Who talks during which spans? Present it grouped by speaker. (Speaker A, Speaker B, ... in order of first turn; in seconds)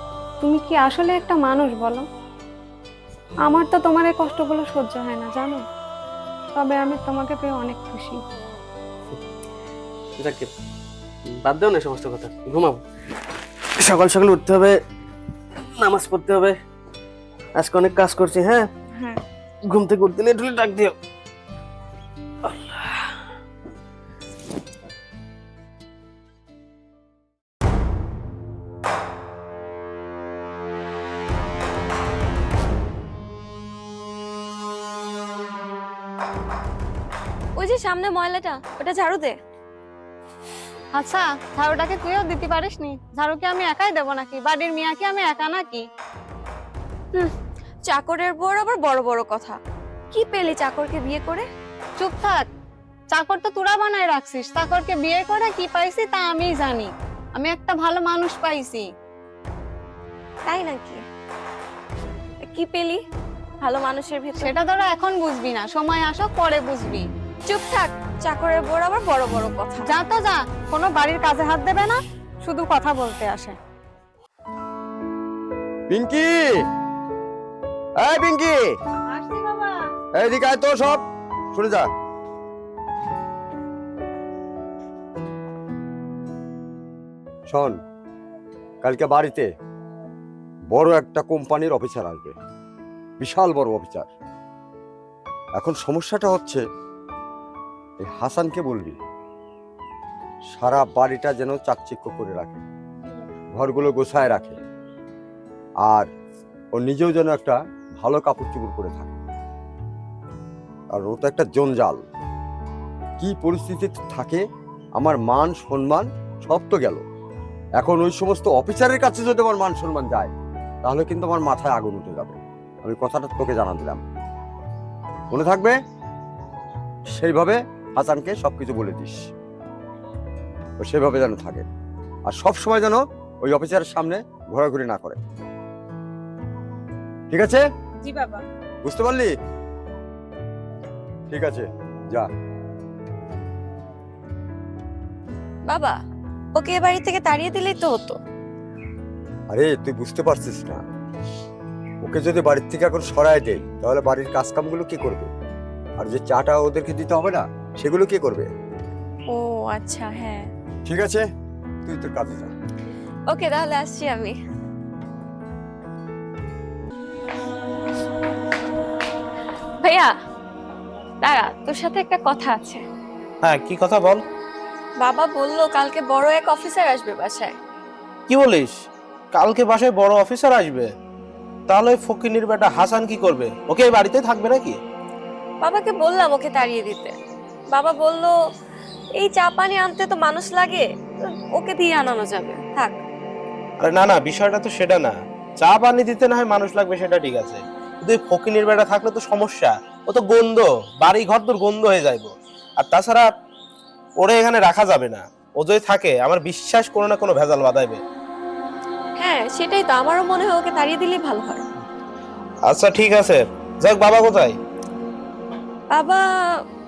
Speaker A: 0.4-2.0, 3.4-5.6, 6.5-8.2, 40.9-45.8, 52.0-52.5, 53.1-58.9, 64.4-67.1, 69.9-73.5, 79.1-79.8, 138.0-138.4
Speaker B: 10.2-10.5, 11.4-12.8, 13.6-14.8, 15.6-16.6, 17.6-18.7, 19.7-20.9, 22.4-23.1
Speaker C: 37.6-39.3, 47.9-49.6, 50.1-51.5, 60.5-61.0, 62.4-63.0, 63.6-64.6, 67.5-69.9, 145.7-145.9, 146.5-148.2, 159.3-160.5, 163.3-164.4, 169.8-170.1, 171.2-172.8, 175.0-177.5, 185.6-187.1, 187.7-188.3, 189.2-190.8, 191.6-193.0, 209.2-211.6, 215.9-216.2
Speaker D: 75.9-76.4, 78.0-78.6, 80.2-81.0, 81.5-81.9, 87.5-87.7, 88.8-89.5, 90.7-92.3, 93.2-94.1, 95.6-96.6, 98.0-99.0, 100.5-102.6, 103.6-104.6, 106.8-109.2, 110.9-112.0, 113.2-114.4, 115.0-117.0, 117.8-120.3, 120.8-124.0, 125.3-125.8, 127.1-129.2, 130.8-131.6, 132.3-135.2, 137.3-137.6, 138.8-139.3, 141.3-142.3, 149.5-150.8, 152.0-155.3, 156.0-158.5, 160.9-161.2, 161.9-162.5
Speaker E: 173.4-174.2, 178.3-178.7, 179.3-180.9, 181.7-184.8, 193.8-203.3, 204.2-208.0, 212.7-214.6